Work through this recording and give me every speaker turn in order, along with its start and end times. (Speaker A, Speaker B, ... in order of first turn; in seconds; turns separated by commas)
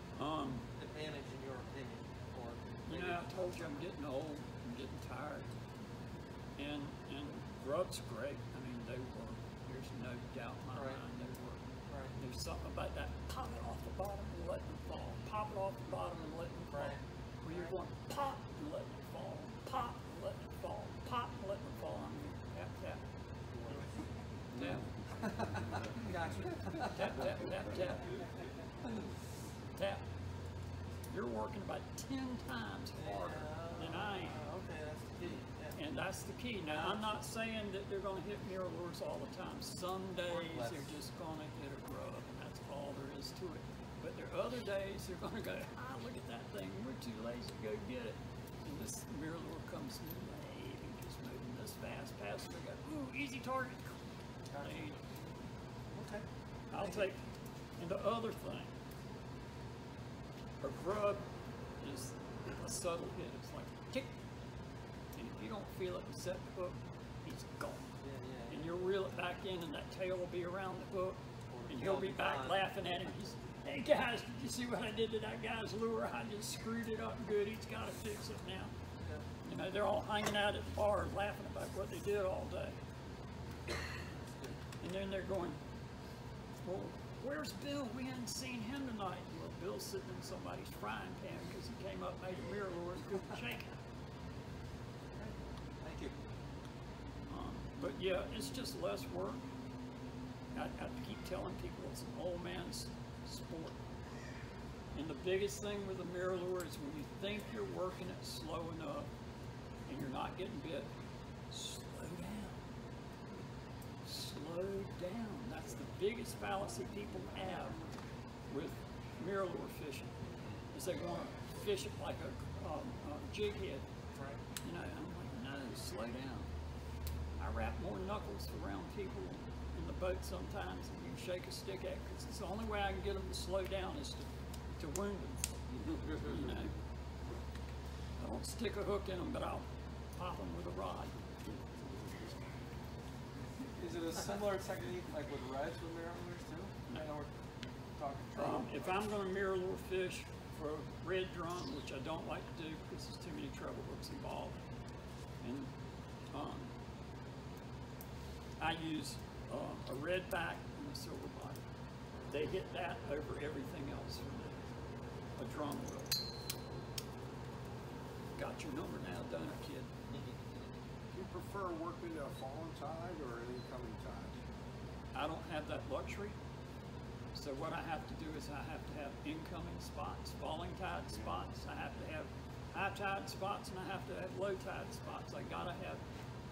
Speaker A: 0.1-0.7, Speaker B: 0.7-3.5, Speaker A: 2.9-5.5, Speaker A: 6.6-11.6, Speaker B: 10.7-11.0, Speaker B: 11.9-12.1, Speaker A: 12.2-23.0, Speaker B: 16.7-17.0, Speaker A: 24.5-24.9, Speaker B: 25.2-27.2, Speaker A: 26.8-28.1, Speaker A: 29.8-30.0, Speaker A: 31.1-34.4, Speaker B: 33.0-35.8, Speaker A: 35.7-54.0, Speaker B: 36.7-37.0, Speaker B: 40.3-40.9, Speaker B: 54.5-54.9, Speaker A: 54.6-55.0, Speaker B: 55.9-56.2, Speaker A: 56.7-57.2, Speaker B: 56.8-57.0, Speaker A: 57.8-58.7, Speaker A: 60.6-61.2, Speaker A: 61.8-64.1, Speaker A: 65.2-67.9, Speaker B: 68.0-68.7, Speaker A: 68.5-78.7, Speaker B: 71.5-72.9, Speaker A: 79.4-82.8, Speaker A: 84.8-85.6, Speaker A: 86.6-93.8, Speaker B: 95.1-96.1, Speaker A: 97.3-99.4, Speaker A: 100.5-103.8, Speaker A: 104.9-109.1, Speaker A: 109.9-110.9, Speaker A: 111.5-112.6, Speaker A: 114.0-117.8, Speaker A: 118.5-120.1, Speaker A: 120.7-123.8, Speaker A: 124.6-126.5, Speaker A: 127.4-134.3, Speaker A: 134.8-135.4, Speaker A: 136.1-136.7, Speaker A: 138.2-141.1, Speaker C: 143.7-147.3, Speaker C: 147.9-148.7, Speaker A: 148.3-154.6, Speaker A: 155.4-155.7, Speaker A: 156.3-156.7, Speaker A: 158.6-161.6, Speaker A: 162.3-164.6, Speaker A: 165.4-166.1, Speaker A: 168.4-169.9, Speaker D: 171.1-174.4, Speaker A: 175.1-176.4, Speaker A: 177.3-186.0